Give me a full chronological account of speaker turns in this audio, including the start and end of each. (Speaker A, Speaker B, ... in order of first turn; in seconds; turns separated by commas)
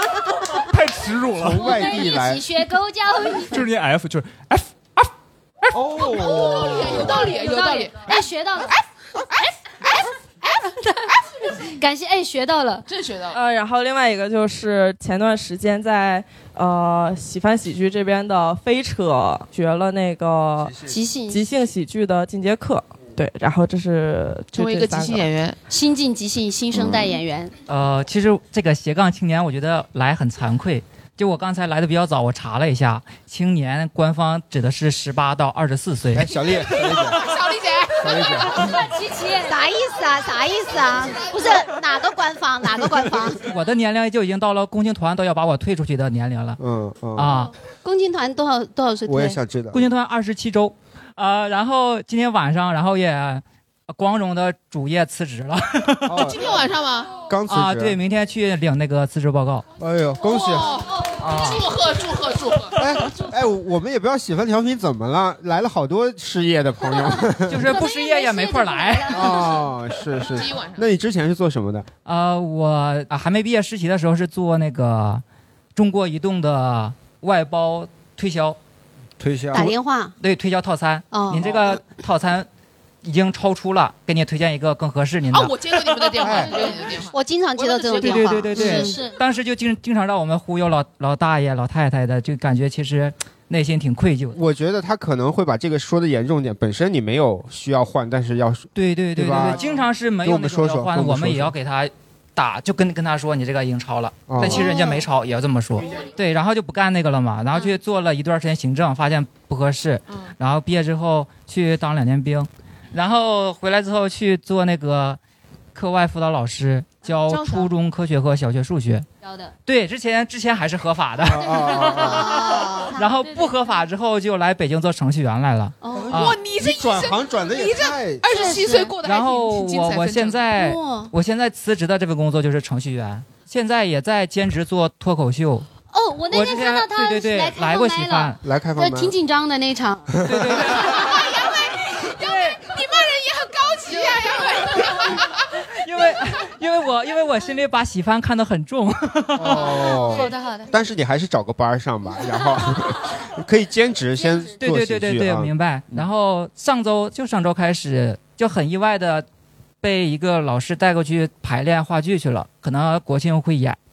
Speaker A: 0.6-1.7, Speaker B: 1.3-2.4, Speaker C: 1.5-3.6, Speaker A: 3.5-5.1, Speaker B: 5.7-7.1, Speaker D: 6.0-11.3, Speaker C: 6.4-8.7, Speaker C: 11.8-12.8, Speaker D: 12.9-13.4, Speaker E: 13.3-20.8, Speaker C: 20.8-21.4, Speaker E: 21.3-25.3, Speaker D: 24.5-25.6, Speaker C: 25.7-27.5, Speaker F: 27.7-36.3, Speaker B: 36.1-37.2, Speaker D: 36.6-38.4, Speaker B: 38.0-38.6, Speaker C: 38.3-39.6, Speaker G: 39.5-43.4, Speaker F: 43.4-46.6, Speaker B: 46.6-47.4, Speaker F: 47.1-47.5, Speaker G: 47.8-49.4, Speaker B: 49.0-49.8, Speaker F: 49.7-56.2, Speaker B: 56.0-56.4, Speaker D: 56.2-57.1, Speaker B: 57.3-58.0, Speaker F: 57.5-59.6, Speaker B: 59.8-60.8, Speaker D: 60.2-62.8, Speaker F: 61.2-61.6, Speaker B: 62.8-67.7, Speaker F: 67.5-69.3, Speaker C: 67.6-69.6, Speaker B: 69.1-71.9, Speaker D: 70.2-70.8, Speaker F: 72.0-75.2, Speaker F: 75.7-78.6, Speaker B: 79.2-79.7, Speaker G: 79.5-80.1, Speaker F: 80.2-82.5, Speaker G: 81.1-81.6, Speaker F: 83.0-85.6, Speaker D: 85.3-88.4, Speaker B: 86.2-86.5, Speaker C: 86.3-86.7, Speaker G: 87.1-89.0, Speaker F: 88.0-94.4, Speaker C: 88.5-89.2, Speaker B: 94.3-99.7, Speaker F: 98.7-115.2, Speaker B: 100.2-101.5, Speaker B: 104.3-104.7, Speaker F: 115.7-119.0, Speaker D: 117.2-117.7, Speaker C: 119.2-119.5, Speaker F: 119.7-126.4, Speaker B: 121.2-122.4, Speaker C: 121.4-122.0, Speaker G: 122.0-123.0, Speaker C: 123.0-123.8, Speaker C: 125.8-126.1, Speaker B: 125.9-128.2, Speaker D: 126.1-130.5, Speaker C: 128.3-128.9, Speaker F: 129.0-135.7, Speaker C: 135.9-140.2, Speaker F: 136.3-138.4, Speaker B: 138.4-139.1, Speaker B: 140.2-140.6, Speaker F: 140.2-140.9, Speaker D: 140.7-145.3, Speaker F: 145.8-149.9, Speaker B: 149.3-156.1, Speaker C: 149.5-150.7, Speaker C: 154.2-154.5, Speaker F: 154.6-159.2, Speaker F: 159.8-163.8